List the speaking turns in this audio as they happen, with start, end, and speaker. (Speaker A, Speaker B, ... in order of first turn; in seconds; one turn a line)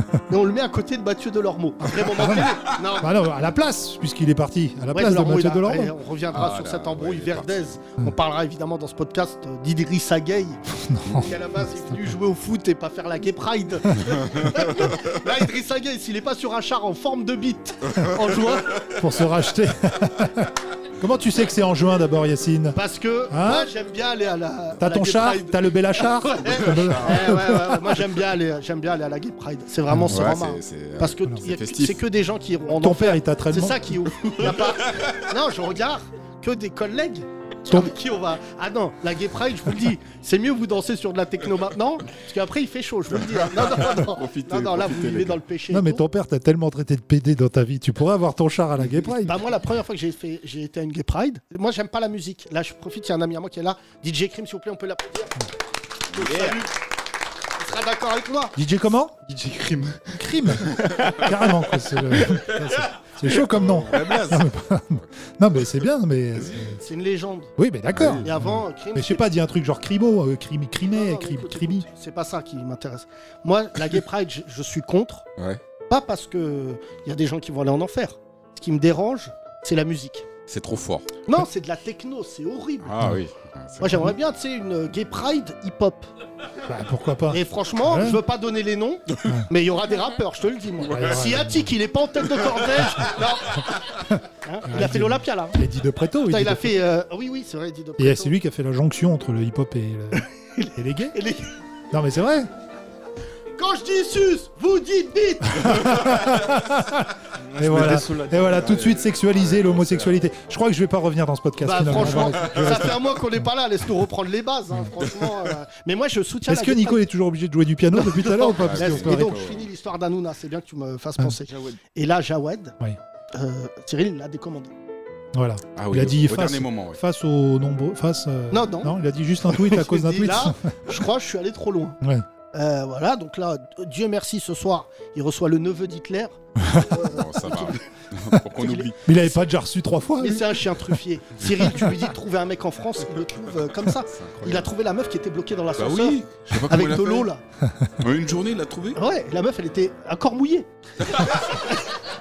Speaker A: 0.3-3.1
Speaker B: 1.9-5.9
Speaker A: 4.9-10.6
Speaker C: 6.3-7.8
Speaker B: 10.8-11.4
Speaker A: 11.1-18.8
Speaker C: 18.0-18.3
Speaker B: 18.9-22.8
Speaker A: 22.7-46.0
Speaker B: 23.3-23.7
Speaker B: 24.8-27.9
Speaker C: 26.8-27.4
Speaker B: 29.9-30.3
Speaker C: 30.1-32.0
Speaker B: 32.8-34.3
Speaker C: 34.4-35.2
Speaker B: 37.7-38.0
Speaker C: 43.1-45.4
Speaker B: 45.7-49.4
Speaker A: 49.2-55.3
Speaker C: 56.1-56.6
Speaker A: 56.1-56.7
Speaker A: 57.6-58.5
Speaker B: 58.5-59.2
Speaker D: 59.2-61.1
Speaker B: 60.2-66.8
Speaker C: 63.3-65.0
Speaker A: 66.8-67.5
Speaker B: 67.6-71.9
Speaker C: 67.9-68.3
Speaker A: 68.2-69.2
Speaker A: 70.9-75.2
Speaker A: 75.9-80.2
Speaker C: 80.5-81.1
Speaker A: 81.2-83.1
Speaker C: 82.8-84.1
Speaker A: 83.8-86.1
Speaker B: 86.7-88.2
Speaker A: 87.3-95.6
Speaker B: 89.2-89.5
Speaker B: 90.8-91.7
Speaker B: 94.7-96.8
Speaker A: 96.3-98.3
Speaker B: 98.0-101.2
Speaker A: 100.1-101.5
Speaker B: 101.9-102.5
Speaker A: 103.5-106.1
Speaker B: 105.5-113.3
Speaker D: 107.5-108.8
Speaker C: 108.5-110.2
Speaker A: 111.6-117.0
Speaker C: 115.0-115.4
Speaker B: 116.5-119.4
Speaker A: 117.9-122.8
Speaker C: 118.6-119.7
Speaker D: 121.4-121.8
Speaker A: 123.3-124.7
Speaker B: 125.3-131.0
Speaker C: 125.8-127.0
Speaker A: 128.5-128.9
Speaker A: 129.5-132.0
Speaker B: 132.0-132.2
Speaker A: 132.5-137.8
Speaker B: 136.6-136.8
Speaker C: 136.9-138.9
Speaker A: 138.6-139.4
Speaker B: 139.0-141.0
Speaker A: 140.2-147.4
Speaker C: 143.9-144.7
Speaker C: 145.8-147.3
Speaker B: 147.6-147.9
Speaker C: 148.0-149.0
Speaker A: 148.9-151.8